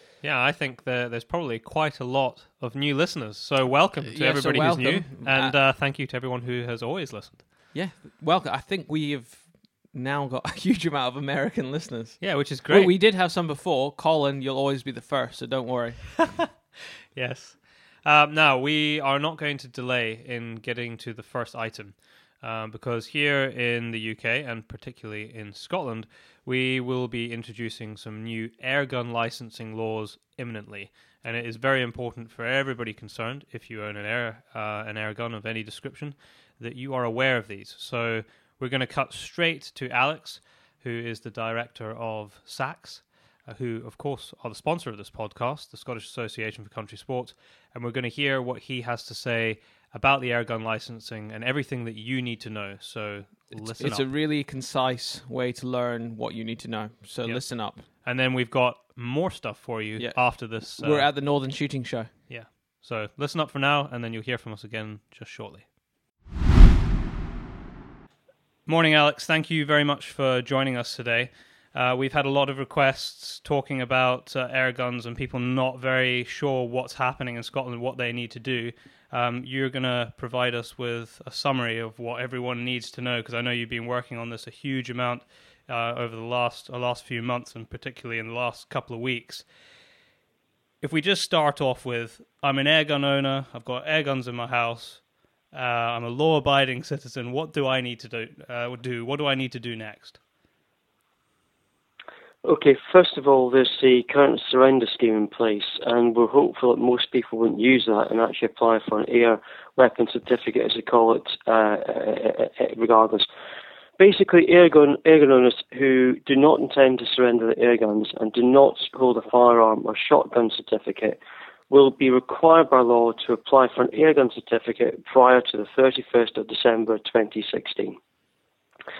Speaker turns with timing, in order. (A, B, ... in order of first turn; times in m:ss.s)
0:00.2-0:07.5 A
0:04.0-0:05.6 B
0:07.7-0:16.4 B
0:12.2-0:12.9 A
0:17.1-0:54.1 A
0:53.7-0:57.9 B
0:57.2-1:01.1 A
1:00.0-1:02.3 B
1:02.3-1:05.7 A
1:08.7-1:29.5 A
1:30.8-1:40.2 A
1:42.4-1:53.3 C
1:54.0-2:01.2 C
2:01.7-2:08.0 C